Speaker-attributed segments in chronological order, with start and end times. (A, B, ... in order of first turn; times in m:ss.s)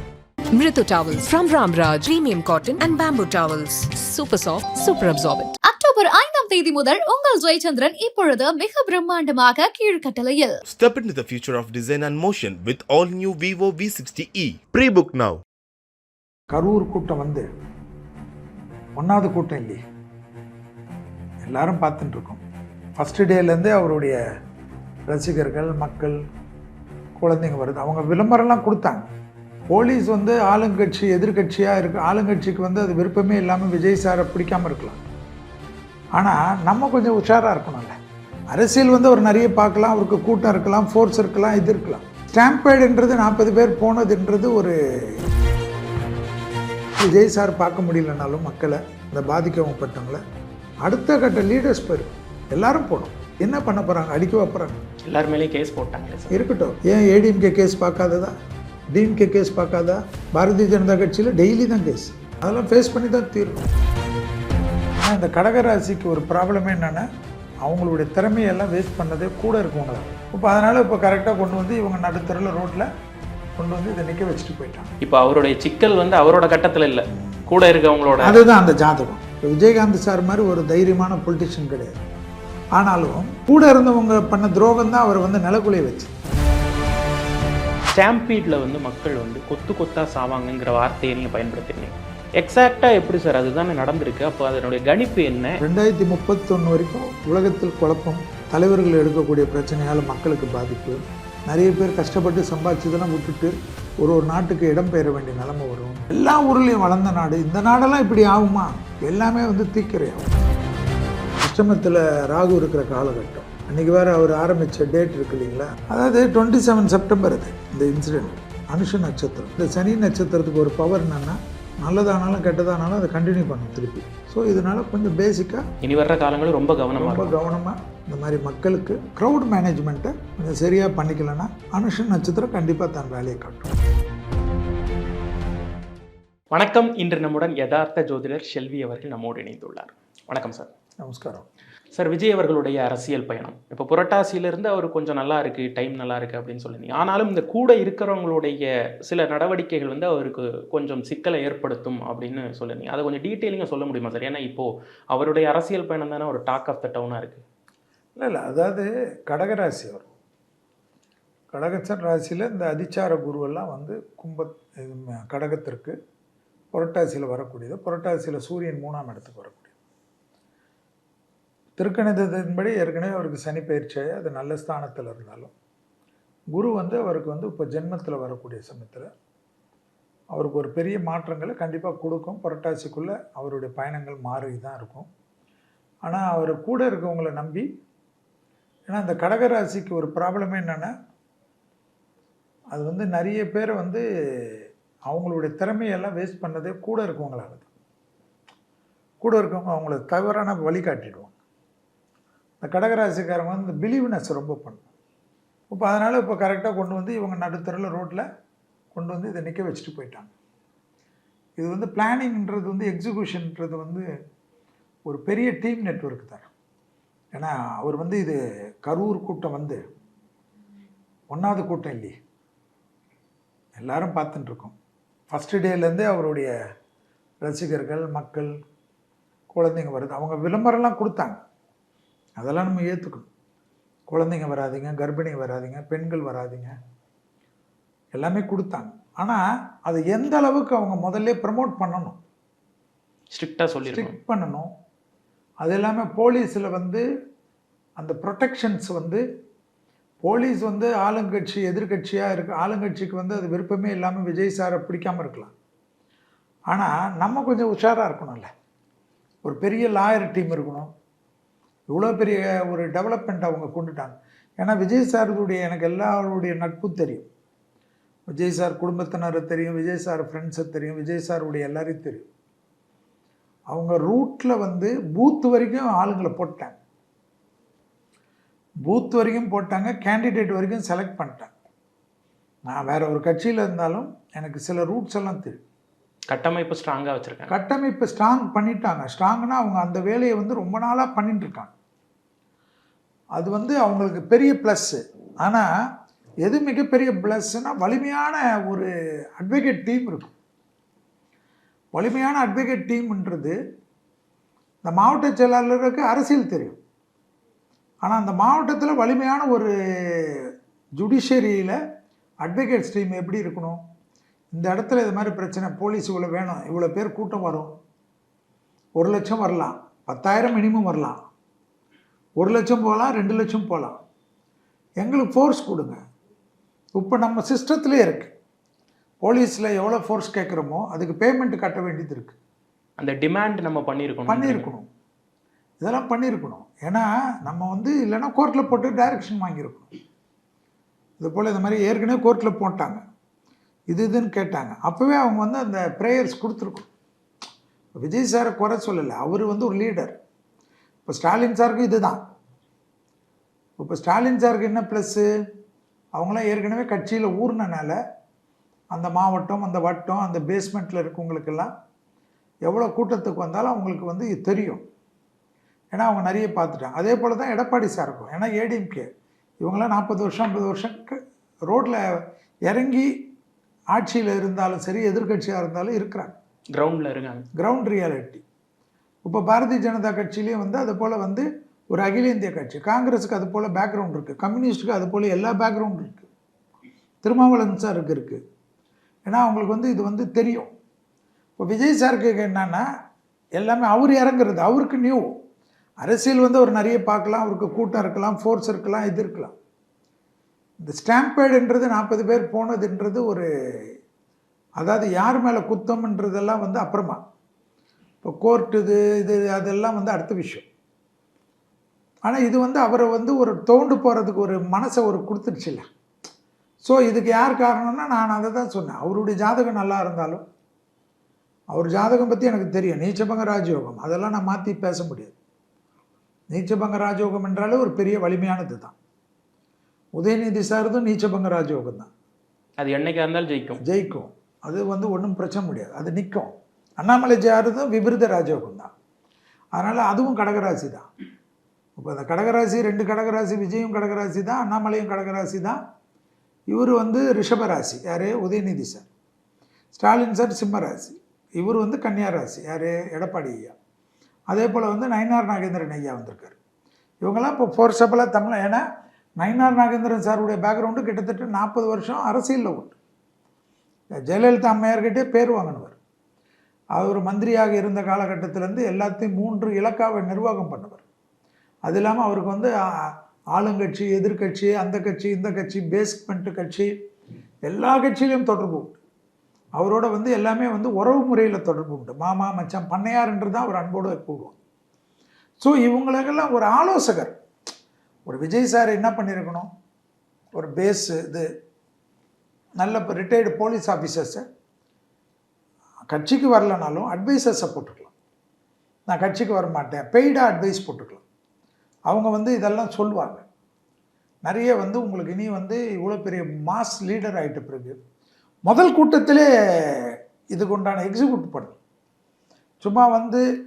0:00.5-0:05.6 A
0:05.6-0:10.6 B
0:10.6-0:15.4 C
0:16.5-0:17.5 D
0:19.0-0:19.8 D
0:21.4-0:22.4 D
0:23.0-0:24.2 D
0:25.1-0:26.2 D
0:27.2-0:29.1 D
0:29.7-0:35.0 D
0:36.2-0:38.0 D
0:38.5-0:45.2 D
0:47.0-0:50.2 D
0:50.8-0:54.8 D
0:55.1-0:56.4 E
0:56.3-0:58.4 D
0:58.9-1:03.7 D
1:05.0-1:07.1 D
1:07.6-1:12.9 D
1:13.6-1:14.9 D
1:15.0-1:18.5 E
1:18.2-1:22.0 D
1:22.7-1:26.1 D
1:27.9-1:35.6 E
1:35.6-1:50.3 D
1:51.4-2:05.7 D
2:05.8-2:07.4 E
2:07.0-2:13.7 D
2:16.5-2:20.7 E
2:21.0-2:21.5 D
2:21.9-2:37.4 E
2:38.2-2:40.1 D
2:41.5-2:46.0 D
2:46.7-2:49.7 D
2:51.8-2:55.5 D
2:56.5-2:59.1 D
3:00.3-3:05.1 D
3:06.0-3:07.7 D
3:08.9-3:10.9 D
3:12.7-3:17.7 D
3:19.2-3:21.3 D
3:22.6-3:24.8 D
3:25.7-3:28.2 D
3:28.9-3:30.3 D
3:31.6-3:34.1 D
3:35.1-3:36.5 D
3:37.3-3:39.8 D
3:41.3-3:42.2 D
3:43.8-3:44.8 D
3:45.3-3:46.5 D
3:47.4-3:48.5 D
3:49.5-3:51.4 D
3:52.4-3:53.3 D
3:54.1-3:56.7 D
3:58.1-4:02.2 D
4:03.3-4:04.1 E
4:03.9-4:04.7 D
4:05.6-4:07.0 D
4:08.0-4:09.2 D
4:10.2-4:15.5 D
4:16.7-4:18.5 D
4:19.4-4:20.9 D
4:21.9-4:27.3 D
4:28.3-4:32.2 D
4:33.7-4:36.8 D
4:38.9-4:41.5 D
4:42.7-4:45.6 D
4:46.3-4:47.5 E
4:47.5-4:51.7 D
4:53.4-4:55.7 D
4:56.4-5:00.3 D
5:01.9-5:03.6 D
5:04.8-5:06.8 D
5:08.0-5:11.8 D
5:12.4-5:13.8 D
5:14.5-5:17.8 D
5:19.0-5:21.2 D
5:22.4-5:24.0 D
5:25.0-5:26.0 D
5:27.0-5:28.3 D
5:29.2-5:32.4 D
5:33.0-5:34.7 E
5:34.3-5:34.9 D
5:35.8-5:39.9 D
5:41.2-5:43.0 D
5:43.9-5:46.9 D
5:48.0-5:50.2 D
5:51.1-5:52.2 D
5:53.8-5:55.3 D
5:56.1-5:58.0 D
5:58.9-6:01.7 D
6:02.6-6:04.8 D
6:05.9-6:09.1 D
6:09.6-6:13.3 D
6:13.9-6:16.4 D
6:16.7-6:17.5 E
6:17.6-6:18.4 D
6:19.2-6:26.3 D
6:27.2-6:28.4 D
6:29.3-6:30.7 D
6:31.6-6:32.9 D
6:33.6-6:35.4 D
6:36.0-6:39.5 D
6:40.8-6:43.9 D
6:44.8-6:47.2 D
6:48.2-6:50.7 D
6:52.2-6:55.9 D
6:56.8-7:00.4 D
7:01.7-7:05.4 D
7:06.5-7:09.0 D
7:10.2-7:12.1 D
7:12.8-7:13.8 E
7:13.8-7:18.9 D
7:19.7-7:21.1 D
7:22.0-7:25.8 D
7:26.7-7:29.1 D
7:29.9-7:33.8 D
7:34.5-7:36.6 D
7:37.2-7:38.8 D
7:39.4-7:43.0 D
7:44.3-7:46.0 D
7:46.9-7:51.0 D
7:51.8-7:56.9 D
7:57.6-7:59.0 D
7:59.8-8:04.6 D
8:05.6-8:07.4 D
8:08.3-8:09.7 D
8:10.5-8:11.5 D
8:12.8-8:14.4 D
8:16.1-8:18.1 D
8:19.1-8:21.2 D
8:22.1-8:23.5 D
8:24.4-8:28.0 D
8:28.7-8:31.8 D
8:32.8-8:33.4 D